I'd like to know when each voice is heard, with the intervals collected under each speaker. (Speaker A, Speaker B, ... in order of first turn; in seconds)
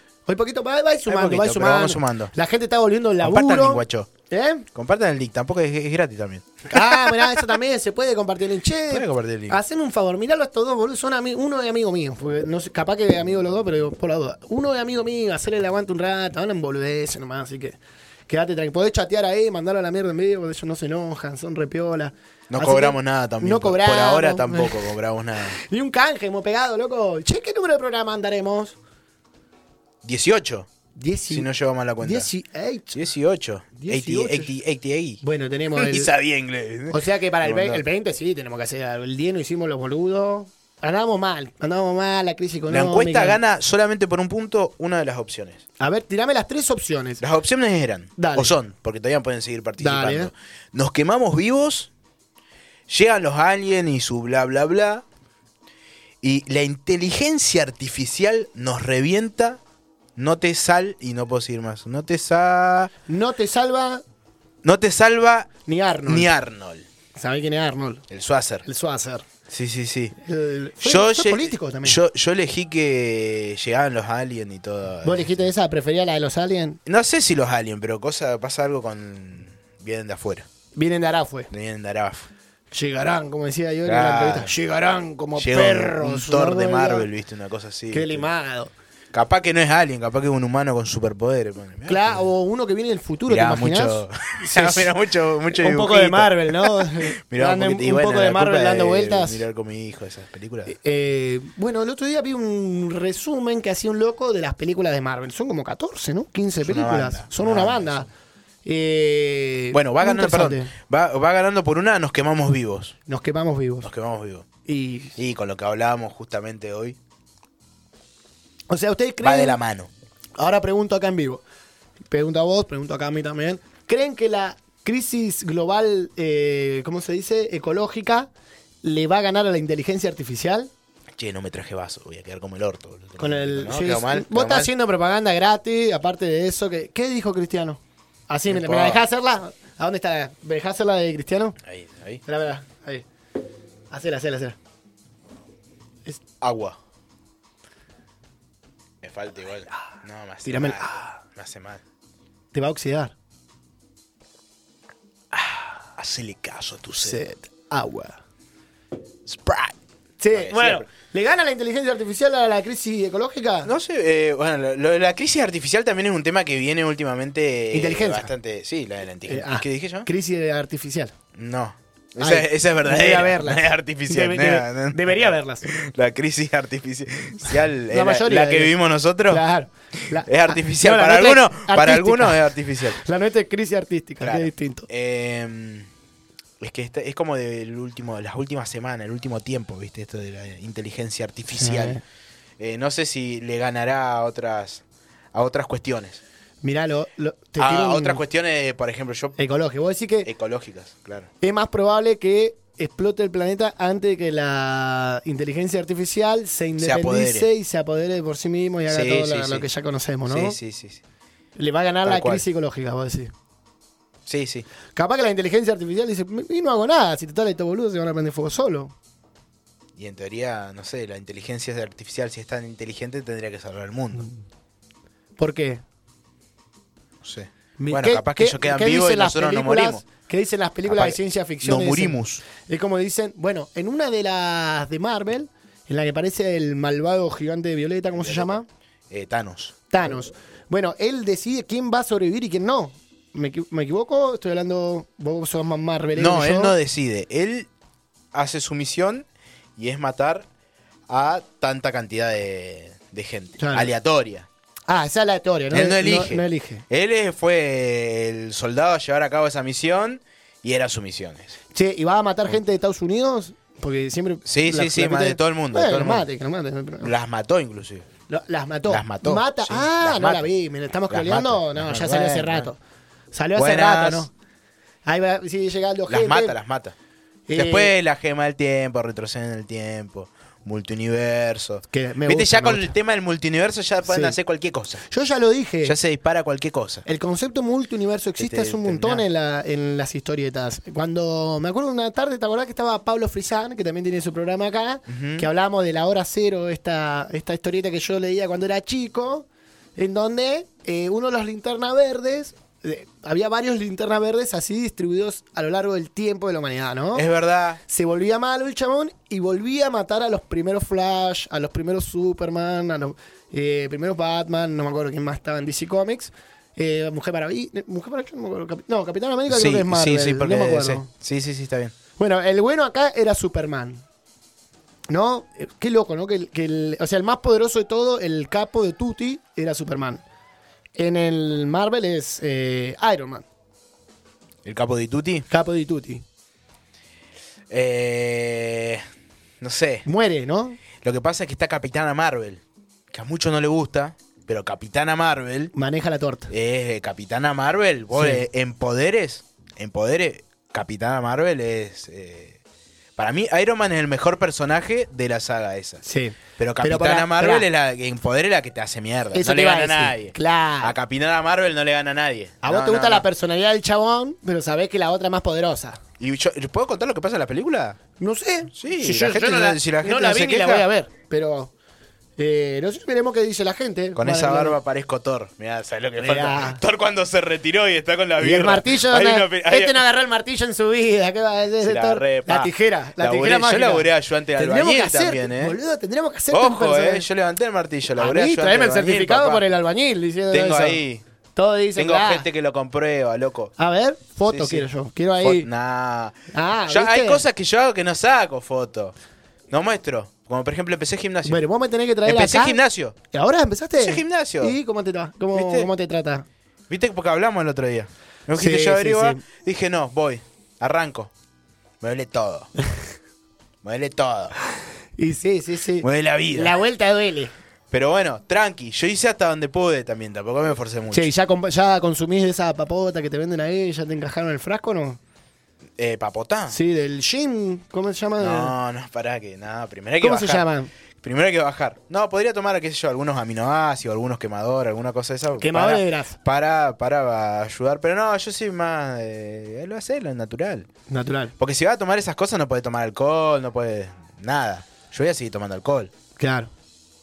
Speaker A: 0.2-4.7, 6.7-17.8, 18.3-24.8, 25.7-28.8, 30.9-31.5, 32.0-33.0, 33.8-34.5, 35.2-36.1, 36.9-43.4, 45.8-47.2, 48.2-48.5, 49.8-50.3, 63.1-64.0, 65.7-66.3, 67.1-68.0, 68.6-69.2, 70.2-72.0, 75.0-76.8, 80.7-81.5, 82.7-87.1, 87.9-88.7, 91.9-94.9, 95.5-99.4, 100.7-108.1, 108.6-110.7, 113.1-113.9, 114.6-115.1, 118.7-119.6, 120.4-121.4, 122.1-128.3, 128.8-130.7, 133.2-141.6, 142.2-143.0, 143.9-144.6, 150.4-151.2, 152.5-153.1, 157.0-158.2, 160.2-163.7, 167.7-168.3, 169.3-171.1, 172.2-175.7, 177.9-178.7, 179.3-184.9, 191.5-192.0, 196.6-198.2, 199.4-200.3, 201.4-210.6, 211.6-213.3, 214.9-218.9, 225.4-225.8, 227.8-238.7, 239.9-246.8, 253.6-253.9, 254.9-256.8, 261.7-267.1, 268.3-272.8, 273.3-274.3, 275.1-276.6, 277.5-277.9, 281.9-282.9, 284.0-284.4, 285.1-285.9, 287.1-307.3, 307.9-321.1, 322.2-324.0, 325.1-330.2, 330.9-333.4, 335.5-336.2, 340.1-340.8, 345.7-346.5, 348.1-348.4, 356.0-357.6, 359.3-360.9, 362.6-366.0, 368.2-371.7, 372.4-374.8, 376.2-376.8, 378.4-387.3, 388.1-391.0, 391.6-392.4, 393.8-395.7, 396.5-397.4, 401.4-402.8, 403.3-406.4, 408.5-409.4, 415.2-417.5, 421.1-425.2, 426.7-428.7, 430.2-430.9, 435.6-436.4, 441.1-441.5, 446.4-446.7
Speaker B: 1.1-2.3, 3.2-4.1, 4.7-7.5, 8.9-9.6, 22.5-25.6, 30.0-30.7, 31.3-32.3, 32.9-35.2, 35.7-37.8, 42.7-45.6, 47.2-51.9, 52.9-55.0, 56.2-59.6, 60.1-62.9, 64.6-65.5, 66.0-66.8, 68.1-68.6, 69.5-70.2, 70.8-75.4, 76.8-80.5, 81.5-82.3, 83.8-84.5, 85.3-88.3, 89.1-92.2, 93.3-100.7, 106.6-108.1, 109.7-112.9, 113.8-114.5, 115.2-117.0, 119.2-119.9, 131.2-134.7, 138.5-139.0, 141.6-142.2, 146.4-146.8, 149.0-151.8, 155.3-157.2, 159.2-159.8, 160.3-160.9, 163.6-170.1, 171.3-179.4, 180.2-183.0, 184.2-185.9, 186.6-192.0, 192.6-194.8, 195.3-196.2, 197.6-199.3, 200.2-201.3, 206.8-207.5, 208.8-209.7, 210.2-211.0, 212.0-212.4, 214.3-214.7, 220.0-224.3, 227.2-230.0, 230.9-232.4, 238.1-238.6, 239.1-239.7, 246.1-247.7, 248.3-250.4, 251.1-254.5, 255.7-261.6, 264.4-266.2, 267.0-268.1, 268.9-270.5, 271.1-272.7, 273.5-274.3, 276.1-276.9, 277.5-285.1, 285.8-287.0, 288.4-289.2, 295.1-295.4, 307.1-307.8, 319.5-321.9, 334.6-335.4, 337.7-339.0, 339.6-340.0, 341.0-345.7, 346.5-352.6, 353.2-356.0, 356.6-363.3, 366.2-368.0, 368.7-370.9, 374.1-380.0, 381.8-385.8, 386.5-389.6, 390.5-391.2, 391.9-393.7, 394.5-394.9, 395.4-399.1, 399.7-401.6, 402.2-403.1, 404.0-404.8, 405.5-405.9, 406.9-411.3, 412.0-412.7, 413.8-414.6, 416.0-416.8, 417.9-421.3, 426.0-426.8, 428.4-430.6, 431.2-440.9, 441.6-446.1